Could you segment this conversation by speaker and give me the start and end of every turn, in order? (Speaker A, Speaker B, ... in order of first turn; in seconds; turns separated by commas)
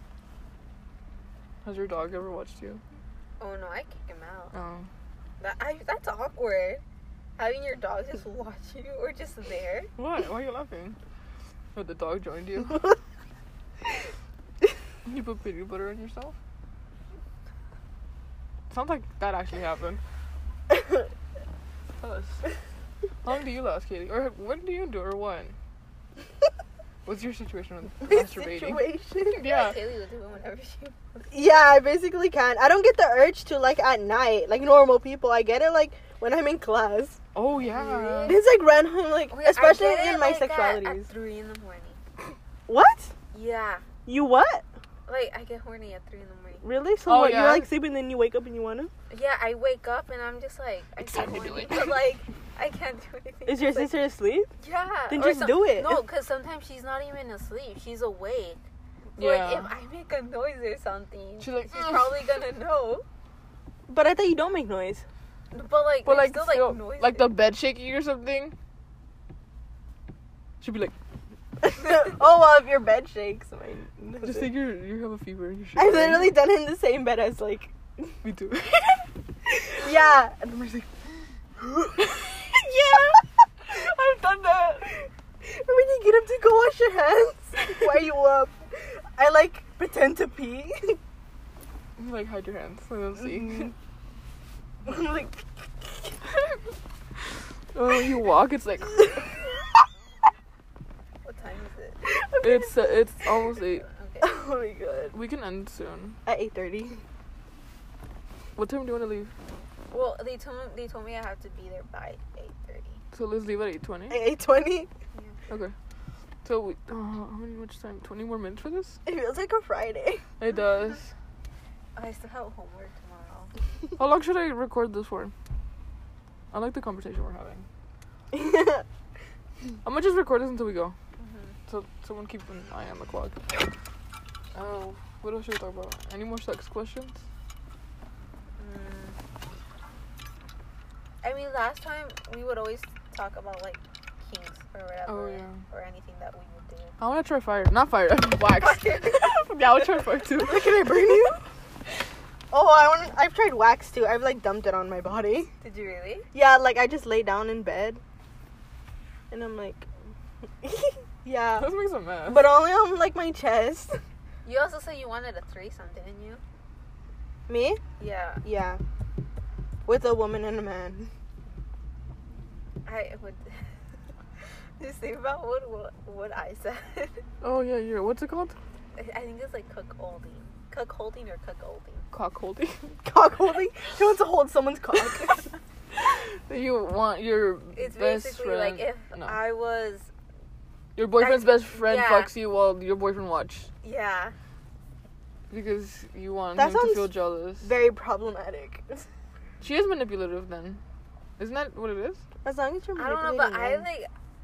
Speaker A: 1.6-2.8, Speaker B: 3.4-4.5, Speaker A: 4.5-4.9, Speaker B: 5.4-6.8, Speaker B: 7.4-9.9, Speaker A: 10.0-11.0, Speaker A: 11.7-12.9, Speaker A: 15.0-16.4, Speaker A: 18.7-20.0, Speaker A: 22.0-22.4, Speaker A: 23.2-25.5, Speaker A: 27.1-29.8, Speaker C: 28.0-29.4, Speaker B: 29.3-31.3, Speaker C: 31.3-37.2, Speaker A: 37.3-38.4, Speaker B: 37.7-38.5, Speaker C: 38.2-41.1, Speaker B: 39.3-42.0, Speaker C: 42.7-43.1, Speaker B: 43.3-43.8, Speaker C: 44.0-44.6, Speaker B: 45.1-46.6, Speaker C: 46.6-48.9, Speaker A: 47.0-47.7, Speaker B: 49.1-53.9, Speaker A: 51.0-52.0, Speaker C: 53.5-54.5, Speaker B: 54.6-58.6, Speaker C: 55.1-56.0, Speaker A: 59.2-59.7, Speaker B: 59.2-63.0, Speaker A: 61.4-62.2, Speaker C: 63.9-65.0, Speaker B: 65.5-67.3, Speaker A: 66.0-68.5, Speaker A: 70.6-70.9, Speaker C: 71.6-74.5, Speaker A: 74.2-76.4, Speaker C: 75.8-77.7, Speaker A: 78.2-79.1, Speaker C: 79.7-80.9, Speaker A: 82.0-84.9, Speaker C: 85.4-91.0, Speaker A: 92.0-93.7, Speaker C: 93.4-93.7, Speaker C: 94.8-96.1, Speaker A: 97.7-99.3, Speaker B: 101.2-102.0, Speaker C: 102.1-102.8, Speaker A: 102.4-103.8, Speaker B: 103.8-104.3, Speaker C: 104.2-105.2, Speaker A: 105.1-106.2, Speaker C: 106.2-107.0, Speaker A: 108.5-109.3, Speaker B: 109.9-113.0, Speaker A: 113.1-114.2, Speaker C: 114.1-114.9, Speaker A: 115.5-115.7, Speaker A: 116.4-119.0, Speaker C: 119.0-120.2, Speaker A: 120.4-121.1, Speaker B: 121.9-123.5, Speaker A: 124.0-125.3, Speaker A: 126.5-127.7, Speaker C: 128.3-128.8, Speaker A: 129.8-130.9, Speaker B: 131.2-131.6, Speaker A: 131.7-133.7, Speaker A: 134.5-137.2, Speaker B: 138.6-139.2, Speaker B: 141.2-146.9, Speaker A: 145.1-145.6, Speaker A: 147.0-150.9, Speaker B: 148.5-149.5, Speaker C: 150.4-151.4, Speaker C: 152.5-155.5, Speaker B: 155.6-156.3, Speaker C: 156.3-158.0, Speaker C: 159.3-159.9, Speaker C: 160.6-161.7, Speaker A: 161.6-162.5, Speaker C: 162.3-164.0, Speaker B: 164.4-166.4, Speaker C: 167.5-167.8, Speaker B: 168.0-168.4, Speaker C: 168.4-168.8, Speaker C: 169.8-171.1, Speaker B: 172.8-173.7, Speaker B: 174.8-177.2, Speaker A: 177.4-178.6, Speaker B: 178.9-182.0, Speaker A: 182.1-182.9, Speaker C: 183.0-185.5, Speaker A: 186.0-189.4, Speaker B: 187.7-190.1, Speaker A: 190.9-193.7, Speaker B: 191.2-192.3, Speaker B: 193.8-194.3, Speaker A: 195.5-197.7, Speaker C: 196.6-199.1, Speaker A: 199.6-200.8, Speaker A: 201.4-202.2, Speaker C: 202.4-203.8, Speaker B: 202.9-204.1